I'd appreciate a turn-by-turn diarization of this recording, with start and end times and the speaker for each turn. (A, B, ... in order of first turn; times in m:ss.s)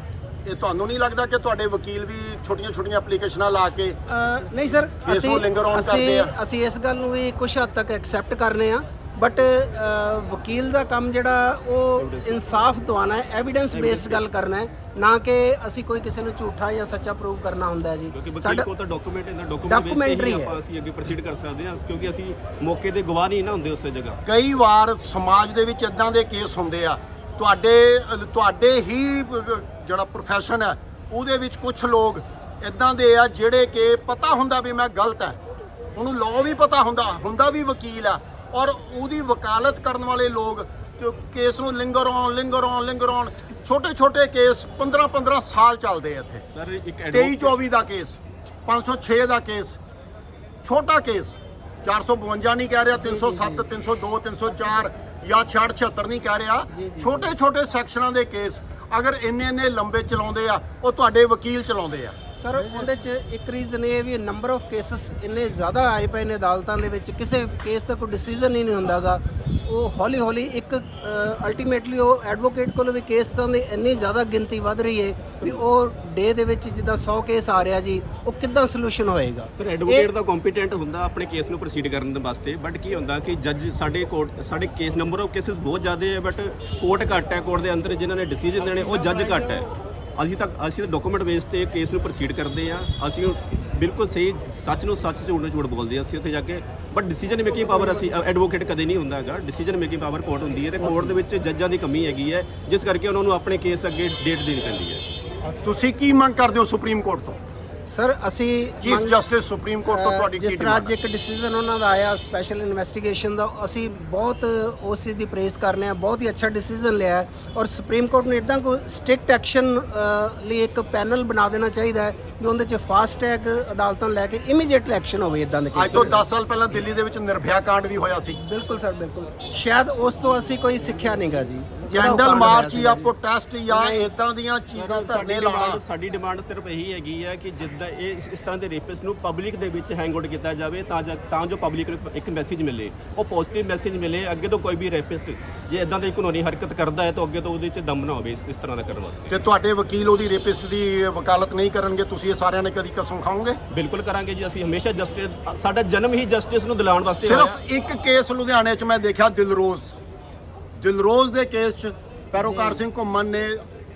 0:00.4-0:04.0 A
0:04.1-0:18.7 B
0:05.0-0:06.3 A
0:12.0-0:12.4 C
0:13.7-0:14.2 C
0:18.1-0:24.2 C
0:19.6-0:20.6 B
0:24.3-0:35.4 A
0:36.0-0:46.4 A
0:46.5-0:47.5 C
0:47.1-0:49.8 A
0:50.6-1:02.2 A
0:53.0-0:53.7 B
0:56.7-0:57.4 B
1:02.3-1:20.1 B
1:19.6-1:45.0 C
1:40.8-1:41.2 B
1:45.6-1:47.4 A
1:47.9-1:49.2 B
1:48.8-1:50.9 A
1:49.9-2:06.2 B
2:05.7-2:08.4 A
2:08.4-2:13.1 B
2:11.9-2:15.8 A
2:13.7-2:14.2 B
2:14.8-2:29.3 C
2:29.3-2:33.6 A
2:33.7-2:37.6 C
2:37.2-2:40.0 A
2:40.8-2:43.6 A
2:42.4-2:42.8 B